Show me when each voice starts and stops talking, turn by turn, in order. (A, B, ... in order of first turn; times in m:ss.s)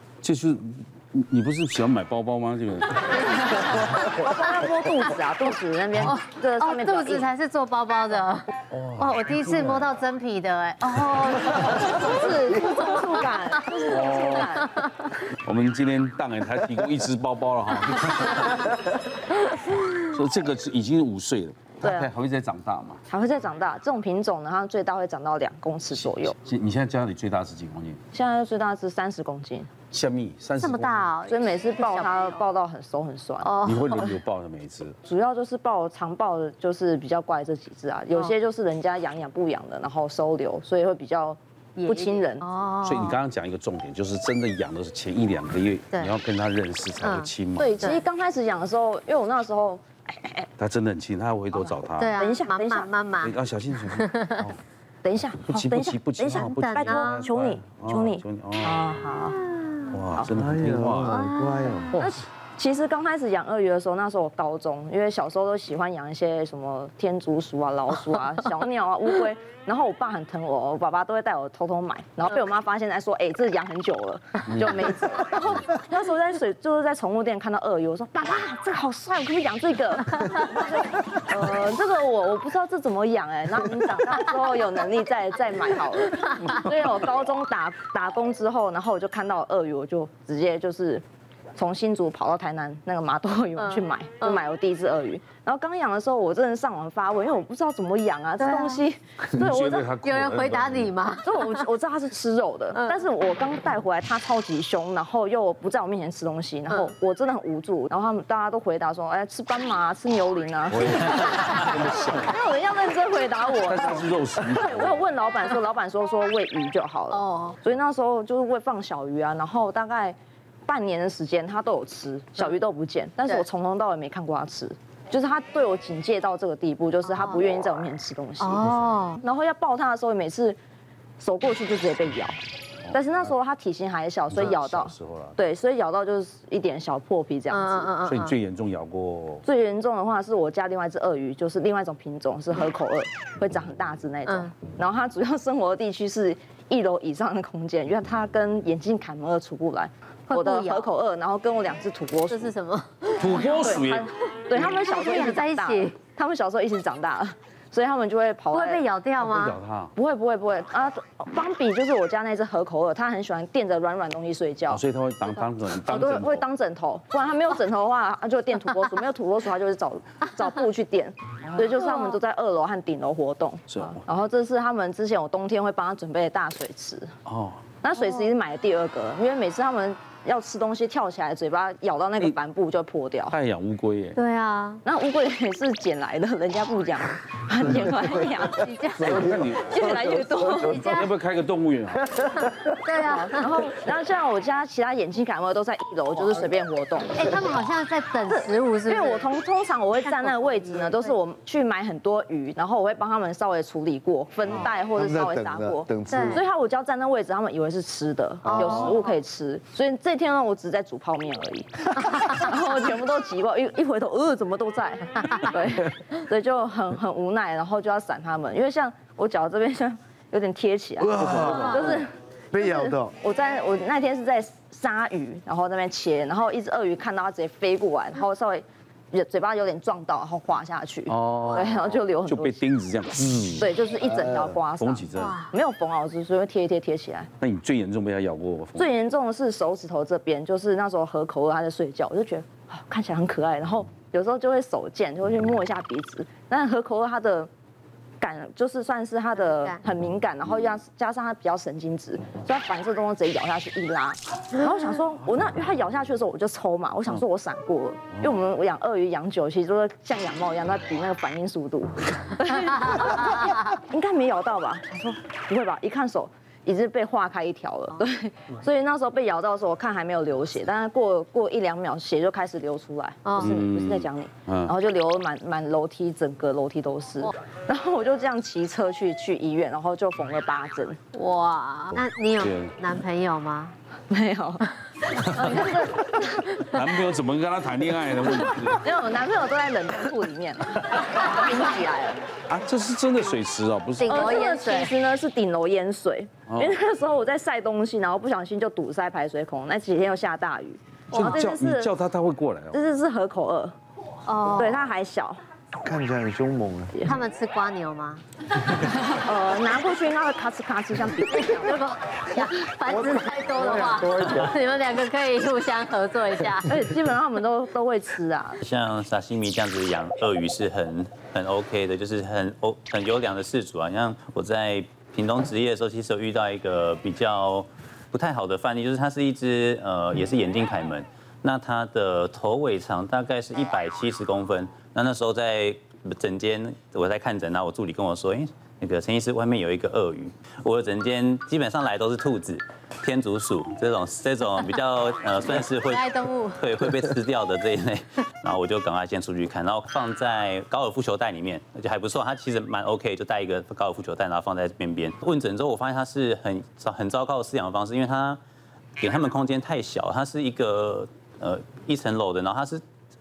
0:00.2-0:03.5 A
0:03.8-0:07.3 B
0:06.0-0:12.0 C
0:08.7-0:09.9 A
0:11.2-0:14.8 B
0:13.9-0:14.6 A
0:15.4-0:18.7 A
0:20.0-0:23.0 A
0:21.8-0:22.1 B
0:23.1-0:26.4 B
0:26.2-0:28.0 A
0:28.1-0:29.7 B
0:29.9-0:31.1 A
0:30.6-0:32.4 C
0:31.2-0:33.5 B
0:33.4-0:34.1 C
0:33.6-0:35.0 A
0:35.0-0:42.4 B
0:41.8-0:43.2 C
0:42.8-0:47.9 A
0:47.0-0:48.0 C
0:47.6-0:50.5 B
0:50.6-0:52.1 A
0:52.0-0:53.3 C
0:52.2-0:52.9 B
0:53.2-0:54.6 A
0:54.0-0:54.4 C
0:55.0-0:59.4 B
0:55.4-0:58.8 A
0:56.4-0:57.2 C
0:59.5-0:59.9 C
0:59.9-1:01.2 A
1:00.3-1:01.9 D
1:01.1-1:01.9 C
1:01.9-1:02.2 A
1:01.9-1:31.0 B
1:14.5-1:15.0 A
1:31.6-1:39.9 B
1:33.6-1:34.4 C
1:38.4-1:38.8 C
1:39.3-1:41.0 A
1:40.0-1:41.6 C
1:41.2-2:10.6 B
1:42.7-1:43.0 C
1:50.7-1:52.3 A
1:53.7-1:55.0 A
1:57.1-1:57.6 C
2:07.1-2:07.4 C
2:08.4-2:09.2 C
2:11.2-2:12.4 B
2:12.9-2:17.9 B
2:14.3-2:15.4 A
2:17.5-2:18.3 C
2:18.0-2:19.4 A
2:19.4-2:32.5 B
2:24.2-2:24.5 C
2:30.3-2:30.9 C
2:32.3-2:33.3 C
2:33.2-2:34.1 A
2:33.4-2:38.8 B
2:34.6-2:36.0 C
2:38.5-2:39.6 C
2:39.2-2:39.9 A
2:39.9-2:44.8 B
2:44.7-2:46.4 A
2:45.9-2:57.1 B
2:53.7-2:54.0 A
2:57.2-2:57.6 A
2:57.8-3:03.4 B
3:03.3-3:04.2 A
3:04.2-3:04.8 C
3:04.8-3:10.9 B
3:08.6-3:09.2 C
3:09.0-3:09.9 A
3:09.1-3:09.4 D
3:10.6-3:11.1 C
3:10.8-3:12.2 A
3:12.4-3:13.6 C
3:13.0-3:17.4 B
3:17.1-3:19.3 C
3:18.8-3:52.6 B
3:20.0-3:21.1 C
3:25.0-3:26.4 D
3:26.1-3:26.4 C
3:28.4-3:28.8 A
3:28.6-3:29.0 C
3:41.0-3:41.9 D
3:42.5-3:43.1 D
3:51.1-3:53.7 A
3:53.6-3:57.3 B
3:54.8-3:55.4 A
3:55.2-3:55.5 C
3:57.4-3:58.9 A
3:58.8-4:07.5 B
4:08.2-4:41.0 B
4:09.4-4:09.8 C
4:33.2-4:33.6 C
4:33.4-4:34.7 A
4:41.1-4:43.7 C
4:42.4-4:42.7 A
4:44.1-4:46.7 B
4:45.4-4:45.7 A
4:46.6-4:48.8 A
4:48.7-4:52.2 B
4:52.5-4:54.3 A
4:54.0-4:54.9 C
4:54.0-5:01.9 B
4:56.5-4:56.7 A
5:01.1-5:02.8 A
5:02.7-5:03.7 B
5:04.2-5:04.8 C
5:04.5-5:05.4 B
5:05.8-5:07.2 D
5:07.0-5:08.2 C
5:09.1-5:11.8 B
5:11.4-5:16.8 C
5:12.9-5:14.5 D
5:16.6-5:18.6 B
5:18.6-5:58.4 E
5:45.8-5:46.6 C
5:59.0-6:02.8 E